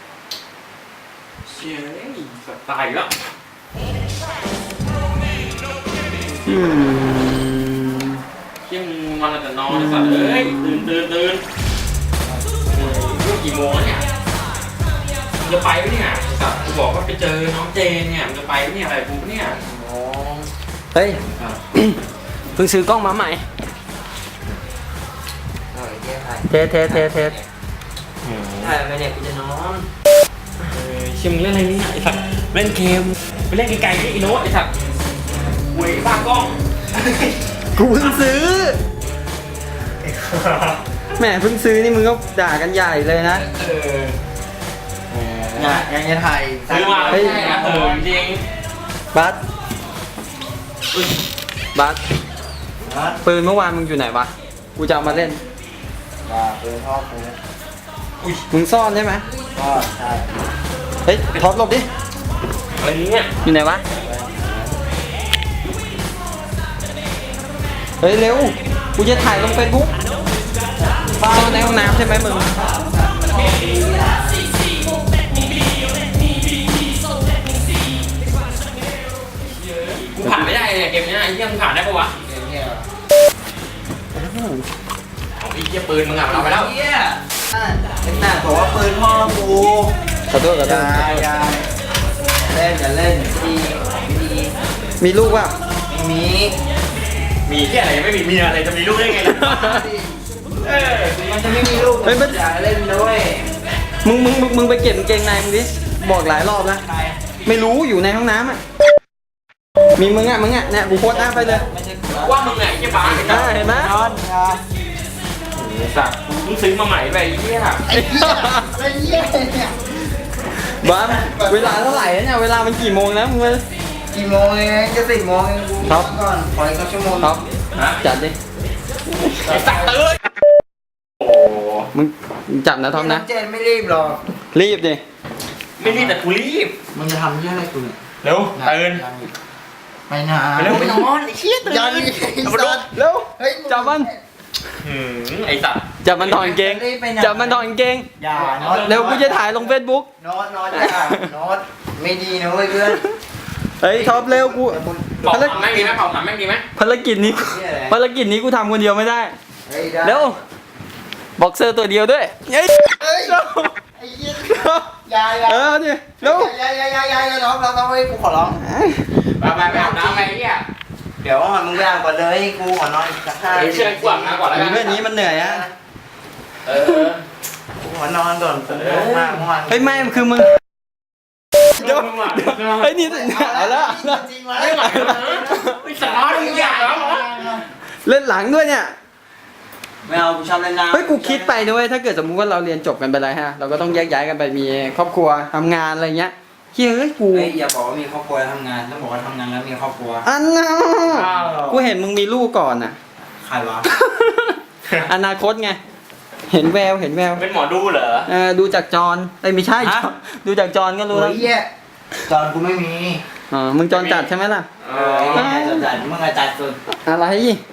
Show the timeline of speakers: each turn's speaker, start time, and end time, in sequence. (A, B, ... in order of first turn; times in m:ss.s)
0:01.5-0:03.1 A
0:06.5-0:08.2 B
0:08.7-0:11.4 A
0:09.7-0:10.9 B
0:12.7-0:14.0 A
0:15.4-0:19.6 A
0:19.5-0:20.5 C
0:20.9-0:21.2 B
0:21.7-0:22.0 B
0:22.6-0:23.5 B
0:25.7-0:27.5 C
0:26.5-0:27.4 B
0:28.2-0:28.8 A
0:28.6-0:29.9 C
0:30.6-0:34.7 A
0:35.7-0:36.6 A
0:37.8-0:38.8 B
0:40.0-0:40.8 A
0:41.2-0:43.5 B
0:43.4-0:44.2 A
0:45.1-0:45.9 A
0:45.6-0:48.0 C
0:46.7-0:48.4 A
0:47.1-0:47.6 B
0:49.1-0:49.4 B
0:51.7-0:52.0 B
0:52.8-0:53.2 C
0:53.2-0:55.4 B
0:56.2-0:57.4 C
0:58.5-0:59.3 B
0:59.5-1:00.4 C
1:01.0-1:01.9 B
1:02.8-1:03.3 A
1:03.4-1:03.8 B
1:04.0-1:04.7 C
1:08.0-1:09.9 B
1:10.9-1:13.9 C
1:11.2-1:12.5 B
1:19.7-1:22.2 A
1:22.2-1:22.9 C
1:24.2-1:24.6 B
1:25.4-1:26.7 A
1:26.3-1:29.9 C
1:30.3-1:31.2 B
1:30.6-1:31.7 C
1:32.5-1:34.5 C
1:35.0-1:35.6 B
1:35.9-1:36.6 C
1:37.5-1:39.7 A
1:39.3-1:39.8 B
1:39.4-1:40.2 C
1:40.6-1:41.2 A
1:41.1-1:43.5 C
1:42.0-1:42.4 B
1:44.0-1:46.8 B
1:46.8-1:47.2 C
1:47.4-1:48.6 B
1:50.0-1:51.7 B
1:51.0-1:54.6 C
1:52.1-1:53.6 A
1:53.2-1:54.0 B
1:55.5-1:57.8 A
1:57.9-1:59.8 C
1:57.9-1:58.7 B
2:00.8-2:03.6 B
2:00.8-2:02.2 C
2:04.1-2:07.4 C
2:05.8-2:06.2 B
2:07.2-2:07.4 B
2:07.8-2:08.0 A
2:08.0-2:08.4 B
2:09.3-2:10.2 A
2:09.5-2:10.0 C
2:11.2-2:11.9 A
2:11.9-2:13.3 B
2:12.9-2:14.2 C
2:14.5-2:15.0 B
2:15.8-2:16.8 A
2:15.8-2:16.2 C
2:16.9-2:18.0 C
2:18.2-2:19.0 A
2:18.6-2:19.3 C
2:20.1-2:21.1 C
2:20.6-2:22.8 A
2:21.6-2:24.2 C
2:22.9-2:24.1 B
2:24.8-2:25.9 A
2:26.0-2:28.1 B
2:26.2-2:27.7 C
2:28.2-2:33.0 C
2:28.3-2:29.4 A
2:28.7-2:30.1 B
2:30.7-2:31.3 B
2:33.8-2:35.7 B
2:33.9-2:36.2 C
2:35.2-2:36.7 A
2:36.8-2:39.4 B
2:37.2-2:38.0 C
2:39.7-2:40.4 C
2:40.0-2:40.4 B
2:41.4-2:43.7 B
2:43.0-2:43.4 C
2:44.0-2:45.7 C
2:44.4-2:44.9 B
2:45.4-2:46.5 B
2:46.2-2:48.6 C
2:48.6-2:49.1 B
2:49.2-2:50.6 A
2:49.6-2:50.3 C
2:51.2-2:55.7 C
2:53.4-2:55.0 A
2:54.5-2:55.7 B
2:56.6-2:57.2 A
2:57.8-3:00.1 C
2:58.7-2:59.4 A
2:59.7-3:00.6 B
3:01.8-3:02.9 A
3:01.8-3:04.3 B
3:03.1-3:07.6 C
3:04.6-3:07.6 A
3:04.8-3:05.8 B
3:08.0-3:08.9 B
3:10.0-3:11.5 C
3:10.9-3:17.5 B
3:17.3-3:20.3 C
3:20.2-3:23.0 B
3:21.1-3:21.8 A
3:23.4-3:23.9 C
3:23.9-3:25.8 B
3:26.5-3:27.4 B
3:27.3-3:28.3 A
3:28.3-3:31.5 B
3:29.8-3:30.0 C
3:31.1-3:31.7 C
3:32.3-3:33.2 C
3:33.5-3:34.7 B
3:33.9-3:35.5 A
3:34.9-3:36.8 C
3:35.3-3:35.9 B
3:37.0-3:37.6 B